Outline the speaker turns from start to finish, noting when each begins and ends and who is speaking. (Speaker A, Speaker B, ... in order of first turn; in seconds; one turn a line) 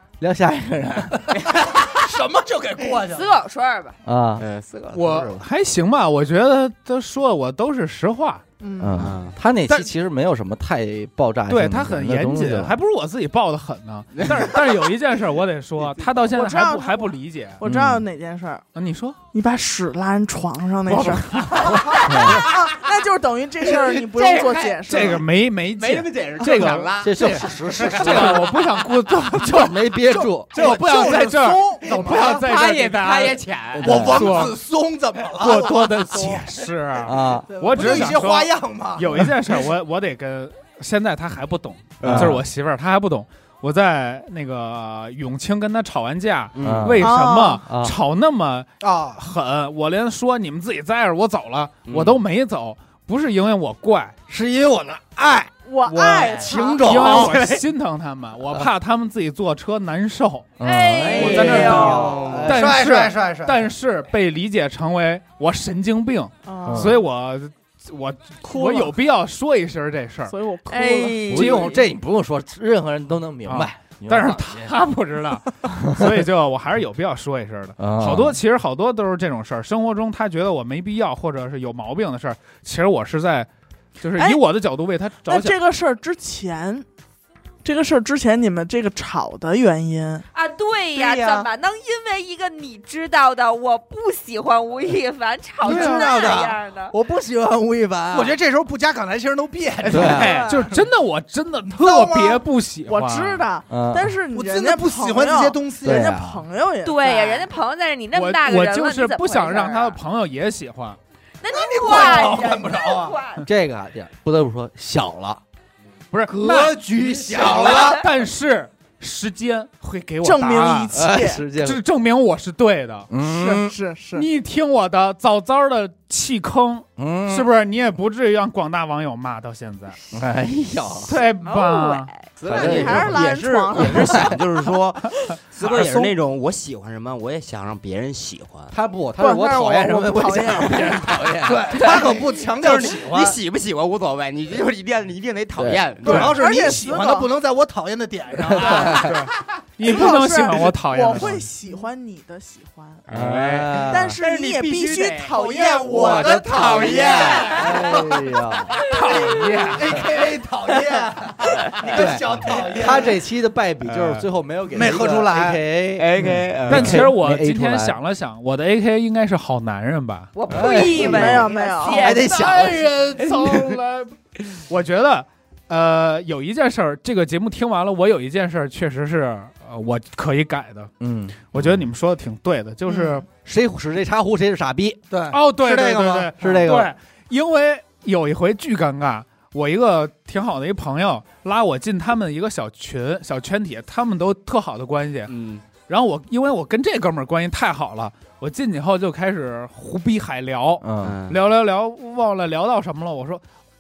Speaker A: 0.2-1.3
Speaker B: 1.6-3.3
Speaker C: 3.1-4.0
Speaker A: 4.1-4.5
Speaker D: 4.4-5.4
Speaker E: 4.9-8.4
Speaker F: 8.6-9.1
Speaker A: 8.8-12.8
Speaker D: 9.0-9.4
Speaker E: 11.5-17.6
Speaker F: 16.3-18.6
Speaker A: 17.6-18.0
Speaker E: 18.8-19.2
Speaker F: 19.3-25.2
Speaker E: 20.9-22.2
Speaker A: 22.1-22.4
Speaker D: 22.1-22.6
Speaker D: 23.6-25.2
Speaker E: 24.9-29.8
Speaker D: 25.8-28.4
Speaker A: 27.0-28.5
Speaker A: 29.3-30.5
Speaker B: 30.1-32.5
Speaker E: 30.5-33.4
Speaker D: 31.9-34.5
Speaker A: 33.8-34.2
Speaker B: 33.8-36.6
Speaker E: 33.9-34.6
Speaker E: 35.4-54.1
Speaker A: 37.0-37.8
Speaker B: 37.5-39.3
Speaker D: 42.0-42.4
Speaker A: 42.0-42.4
Speaker D: 46.5-47.0
Speaker A: 46.6-47.1
Speaker F: 47.0-47.6
Speaker A: 47.6-48.0
Speaker B: 48.8-49.2
Speaker D: 51.9-52.2
Speaker B: 54.3-55.5
Speaker F: 55.6-57.2
Speaker E: 55.9-70.3
Speaker D: 56.2-56.5
Speaker B: 56.5-57.5
Speaker D: 57.1-57.6
Speaker A: 60.6-62.6
Speaker C: 60.6-62.1
Speaker D: 61.2-62.5
Speaker B: 62.4-63.7
Speaker F: 66.5-67.0
Speaker A: 66.7-67.0
Speaker F: 68.5-68.9
Speaker F: 70.3-71.4
Speaker C: 70.7-71.8
Speaker A: 71.3-74.7
Speaker E: 71.4-71.6
Speaker E: 73.5-83.5
Speaker A: 77.8-78.4
Speaker E: 84.0-85.6
Speaker F: 85.2-86.8
Speaker F: 87.6-90.2
Speaker C: 90.3-97.0
Speaker B: 95.6-96.5
Speaker A: 95.7-96.3
Speaker A: 96.9-98.3
Speaker B: 98.1-100.8
Speaker E: 99.8-103.5
Speaker A: 99.9-100.4
Speaker F: 100.3-100.7
Speaker B: 101.7-102.4
Speaker F: 102.9-107.5
Speaker A: 103.7-104.1
Speaker B: 104.3-106.2
Speaker A: 105.8-106.3
Speaker C: 106.8-110.0
Speaker E: 108.1-111.0
Speaker C: 111.4-113.5
Speaker B: 111.5-113.2
Speaker A: 113.5-115.4
Speaker E: 116.1-116.8
Speaker A: 116.3-117.9
Speaker B: 116.3-118.1
Speaker E: 117.4-121.0
Speaker F: 120.2-121.4
Speaker A: 120.9-121.8
Speaker E: 121.5-123.1
Speaker A: 123.1-123.8
Speaker F: 123.2-124.3
Speaker E: 124.1-130.0
Speaker A: 127.0-127.5
Speaker A: 130.1-131.1
Speaker E: 131.1-132.1
Speaker C: 131.4-132.1
Speaker D: 132.4-138.7
Speaker A: 132.4-133.2
Speaker F: 132.5-134.4
Speaker B: 135.6-136.1
Speaker A: 138.7-142.0
Speaker F: 139.2-141.2
Speaker B: 141.4-143.4
Speaker D: 142.6-146.3
Speaker A: 145.6-145.8
Speaker B: 146.0-149.1
Speaker F: 146.1-147.3
Speaker A: 148.5-149.1
Speaker E: 148.7-151.4
Speaker F: 149.8-153.0
Speaker D: 153.1-158.2
Speaker A: 153.1-154.2
Speaker F: 153.9-156.4
Speaker B: 155.3-158.2
Speaker A: 155.9-158.8
Speaker E: 158.8-160.0
Speaker C: 158.9-159.3
Speaker B: 159.7-163.2
Speaker A: 161.9-168.0
Speaker E: 163.9-164.2
Speaker B: 164.7-165.6
Speaker D: 166.0-167.1
Speaker E: 166.7-170.3
Speaker C: 170.3-172.3
Speaker A: 170.5-172.9
Speaker F: 170.7-172.1
Speaker E: 172.0-180.9
Speaker D: 173.2-173.8
Speaker A: 181.0-181.6
Speaker E: 181.5-183.3
Speaker A: 183.4-185.0
Speaker B: 185.1-186.3
Speaker E: 185.3-203.4
Speaker A: 186.4-186.9
Speaker D: 195.3-195.6
Speaker A: 200.8-201.1
Speaker D: 201.0-201.4